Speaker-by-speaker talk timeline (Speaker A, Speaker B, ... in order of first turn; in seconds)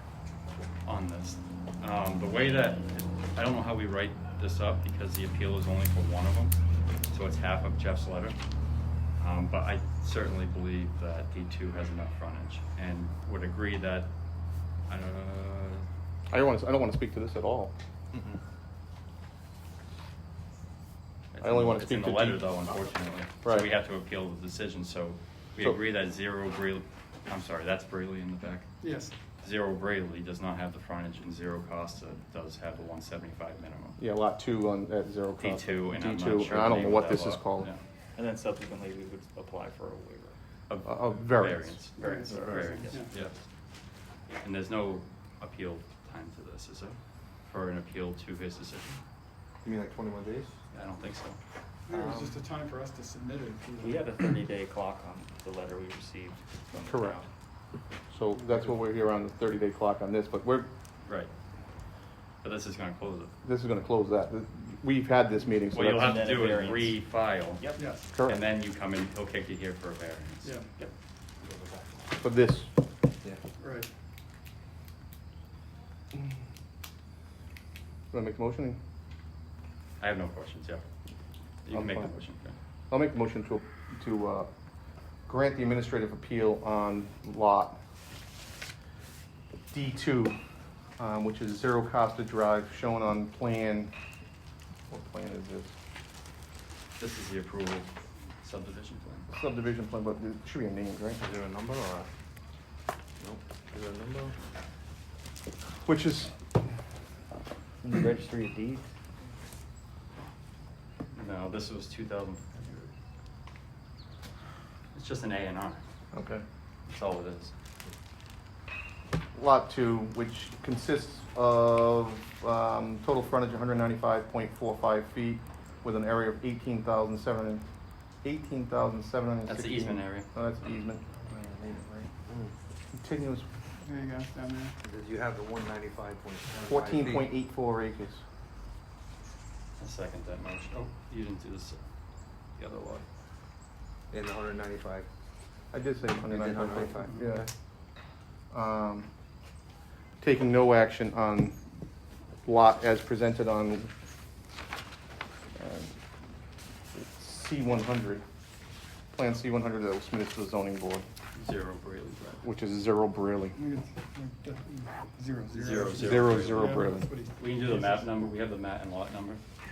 Speaker A: 0.8-6.6, 7.1-8.4, 9.2-14.1, 14.9-15.9, 21.3-28.7, 29.4-34.0, 35.4-37.8, 40.7-43.3, 44.4-47.0, 47.5-49.0, 50.7-51.4, 61.0-61.3, 62.4-63.3, 65.7-70.6, 80.0-80.9, 81.6-82.6, 97.0-99.3, 111.1-112.6, 114.9-115.8, 116.9-117.5, 129.5-130.7, 139.8-141.8, 142.6-143.1, 161.3-162.4, 165.5-169.4
Speaker B: 16.3-17.7, 21.4-22.6, 34.0-37.7, 40.9-41.8, 56.8-57.2, 58.1-60.7, 63.4-66.3, 68.1-68.4, 72.2-72.7, 78.1-78.8, 81.7-82.1, 82.9-84.5, 85.3-87.8, 89.7-90.4, 91.0-93.9, 94.9-95.7, 99.3-101.2, 105.8-106.3, 116.1-116.4, 119.3-127.6, 128.2-132.1, 132.9-133.5, 136.7-138.2, 145.7-147.5, 148.5-149.1, 150.2-151.6, 152.4-153.9, 155.6-155.9, 156.9-158.2, 159.1-161.1, 162.4-163.6, 166.0-167.1
Speaker C: 18.1-18.4, 49.6-50.6, 51.9-52.4, 101.2-102.1, 103.2-104.3, 134.8-137.3, 144.1-145.1, 146.3-147.3
Speaker D: 28.8-29.1, 51.9-54.0, 67.8-68.1, 70.4-70.7, 73.6-73.9, 133.8-134.8, 163.6-168.1
Speaker E: 38.2-40.4, 42.0-43.2, 53.8-57.3, 65.9-67.0, 67.6-67.8, 70.8-72.0, 107.8-108.8